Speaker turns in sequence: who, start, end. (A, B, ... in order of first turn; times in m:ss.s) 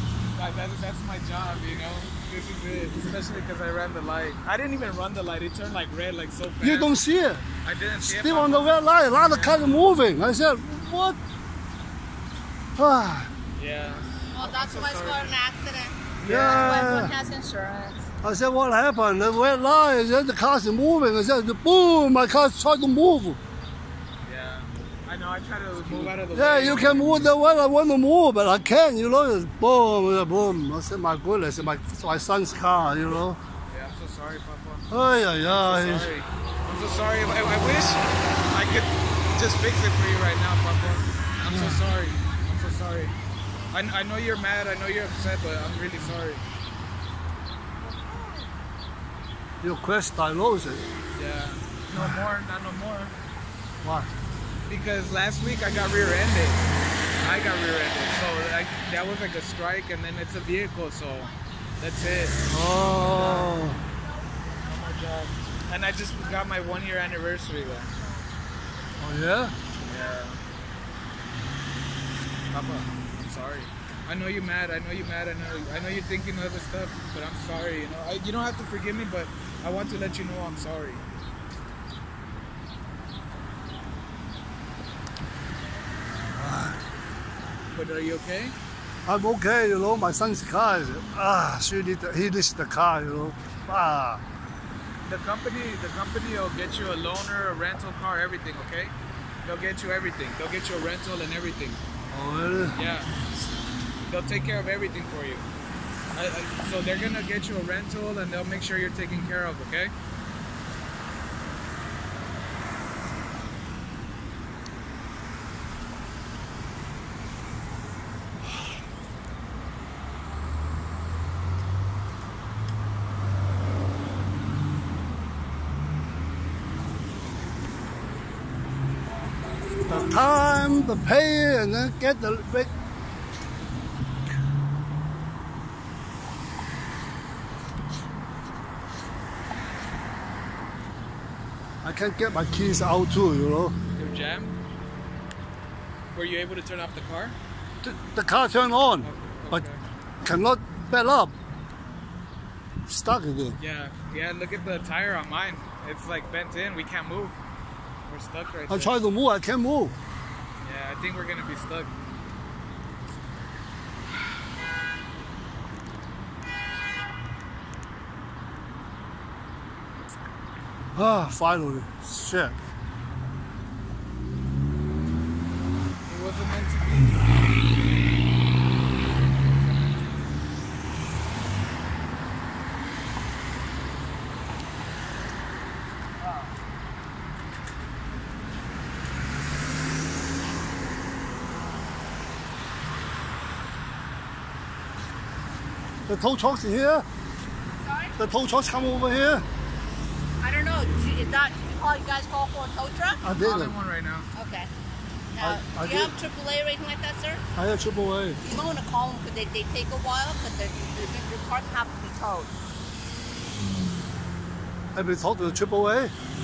0:00.3-0:06.9 A
0:06.6-0:07.4 B
0:07.6-0:09.8 A
0:08.0-0:11.2 B
0:12.8-0:13.3 B
0:13.6-0:15.2 A
0:14.3-0:18.0 C
0:16.2-0:16.9 A
0:16.2-0:17.1 B
0:18.2-0:23.4 B
0:24.2-0:27.3 A
0:26.3-0:33.4 B
0:33.7-0:34.9 A
0:34.9-0:36.1 B
0:35.4-0:43.1 A
0:41.5-0:41.8 B
0:43.7-0:46.4 A
0:49.6-0:50.8 B
0:51.1-0:53.1 A
0:53.8-0:54.1 B
0:54.6-0:56.6 A
0:57.2-1:02.4 A
1:02.5-1:03.8 B
1:02.9-1:03.5 A
1:04.6-1:07.9 A
1:09.0-1:09.5 B
1:09.8-1:10.4 A
1:12.5-1:21.0 A
1:26.3-1:26.8 B
1:27.7-1:28.5 A
1:29.0-1:34.2 B
1:35.0-1:41.8 A
1:42.1-1:42.8 B
1:42.7-1:43.1 A
1:44.1-1:45.4 A
1:46.1-1:49.9 A
2:09.9-2:12.7 B
2:21.8-2:23.8 B
2:23.9-2:24.6 A
2:26.1-2:27.4 A
2:27.8-2:29.6 B
2:29.0-2:29.8 A
2:30.2-2:31.3 B
2:32.9-2:33.6 B
2:33.6-2:37.3 A
2:38.0-2:39.0 A
2:38.7-2:39.9 B
2:40.6-2:41.9 A
2:50.9-2:52.6 B
2:56.0-2:57.4 A
3:16.1-3:17.0 B
3:17.8-3:18.1 C
3:18.2-3:19.4 B
3:20.4-3:23.2 C
3:23.2-3:23.7 B
3:23.3-3:24.3 A
3:24.3-3:24.7 C
3:25.3-3:27.4 C
3:25.4-3:26.1 B
3:27.6-3:28.4 B
3:28.4-3:32.5 C
3:34.9-3:36.1 B